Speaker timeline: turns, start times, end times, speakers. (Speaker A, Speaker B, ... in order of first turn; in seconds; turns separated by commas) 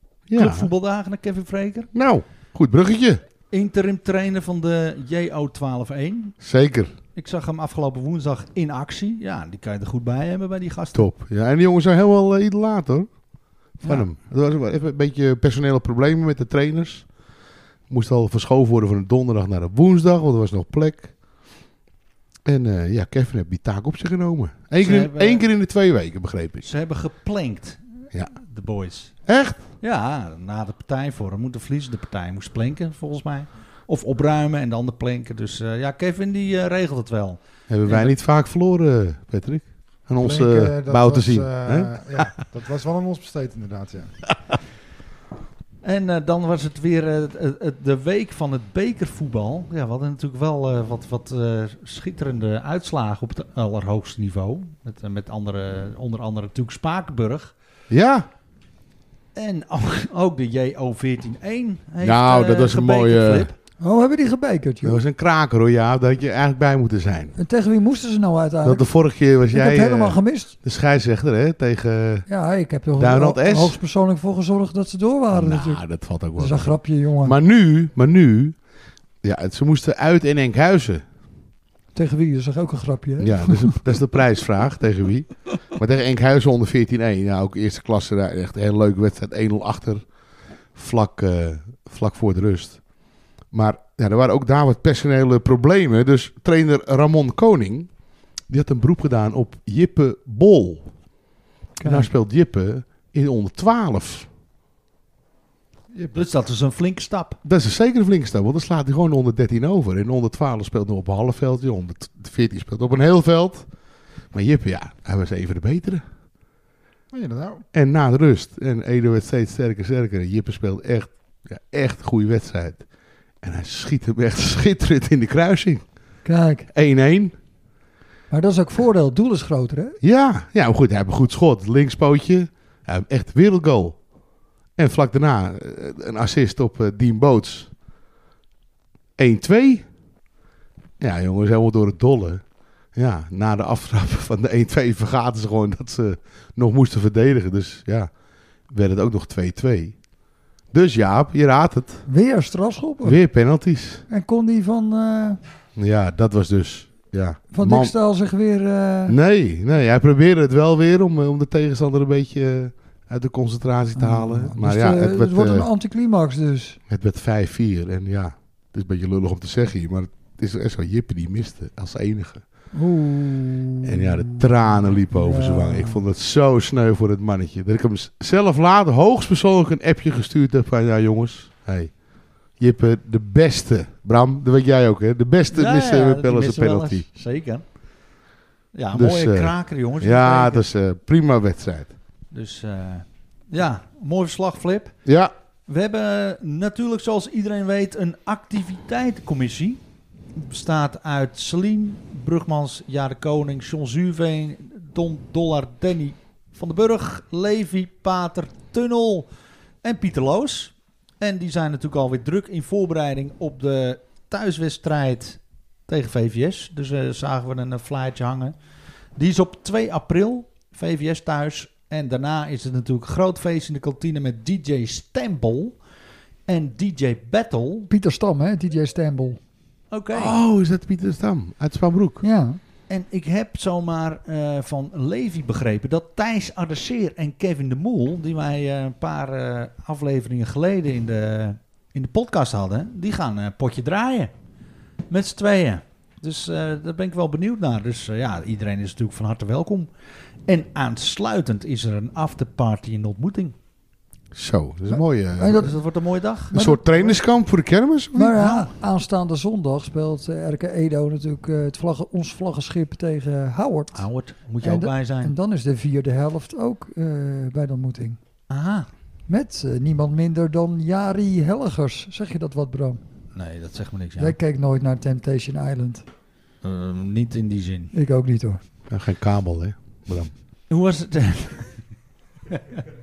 Speaker A: 0.3-0.7, Speaker B: 0.3-1.9, Speaker A: 1.9-3.2, Speaker B: 3.5-6.3, Speaker A: 6.4-6.9, Speaker B: 7.1-11.1, Speaker A: 10.9-13.1, Speaker A: 13.8-17.1, Speaker A: 17.9-21.1, Speaker A: 22.4-26.6, Speaker B: 24.8-25.5, Speaker B: 26.6-29.2, Speaker A: 29.3-29.6, Speaker B: 29.8-38.1, Speaker A: 37.7-42.2, Speaker C: 40.2-44.1, Speaker B: 45.8-57.5, Speaker A: 57.9-58.3, Speaker B: 59.3-63.5, Speaker A: 62.0-63.5, Speaker D: 63.8-65.0, Speaker A: 64.8-67.3, Speaker D: 67.4-68.9, Speaker A: 68.6-72.2, Speaker D: 69.5-70.5, Speaker D: 72.3-75.8, Speaker A: 73.0-73.8, Speaker A: 75.3-78.6, Speaker D: 76.3-77.4, Speaker A: 79.2-81.0, Speaker D: 81.9-83.8, Speaker A: 83.2-90.0, Speaker A: 90.7-92.8, Speaker A: 93.5-97.9, Speaker A: 98.5-100.9, Speaker D: 101.8-102.1, Speaker A: 101.8-104.3, Speaker C: 105.9-106.2, Speaker B: 106.1-107.4, Speaker A: 107.4-113.7, Speaker A: 114.3-116.0, Speaker C: 117.1-117.6, Speaker A: 117.7-122.8, Speaker A: 123.4-125.8, Speaker D: 126.2-126.7, Speaker A: 126.7-127.3, Speaker D: 128.3-130.0, Speaker A: 130.0-134.0, Speaker A: 134.8-137.7, Speaker A: 139.2-139.9, Speaker A: 141.0-148.1, Speaker A: 148.7-149.9, Speaker A: 150.7-152.0, Speaker D: 152.1-153.2, Speaker A: 153.0-154.0, Speaker D: 154.1-155.4, Speaker A: 155.8-157.9, Speaker D: 157.5-159.2, Speaker A: 159.1-165.7, Speaker D: 163.9-166.8, Speaker A: 166.9-172.4, Speaker D: 172.7-176.0, Speaker A: 173.8-182.0, Speaker A: 182.6-187.1, Speaker B: 185.5-187.6, Speaker B: 188.7-190.7, Speaker A: 188.9-191.9, Speaker B: 192.3-194.9, Speaker A: 195.0-195.3, Speaker B: 195.7-199.8, Speaker B: 200.3-209.3, Speaker B: 209.8-218.5, Speaker B: 219.2-225.8, Speaker B: 226.5-227.9, Speaker D: 227.9-229.4, Speaker B: 229.9-230.3, Speaker A: 230.1-232.2, Speaker D: 232.2-232.6, Speaker B: 232.9-244.3, Speaker B: 245.1-249.9, Speaker B: 250.5-253.5, Speaker A: 254.3-255.7, Speaker D: 254.9-255.7, Speaker B: 255.5-256.5, Speaker D: 256.5-257.1, Speaker A: 256.5-258.4, Speaker D: 258.1-264.0, Speaker B: 258.4-258.7, Speaker B: 263.9-265.3, Speaker D: 264.6-268.2, Speaker B: 268.5-268.9, Speaker D: 269.3-273.0, Speaker B: 273.3-274.3, Speaker D: 274.2-276.0, Speaker B: 276.6-277.9, Speaker D: 277.9-278.6, Speaker A: 278.9-280.3, Speaker B: 280.7-281.8, Speaker B: 282.5-282.8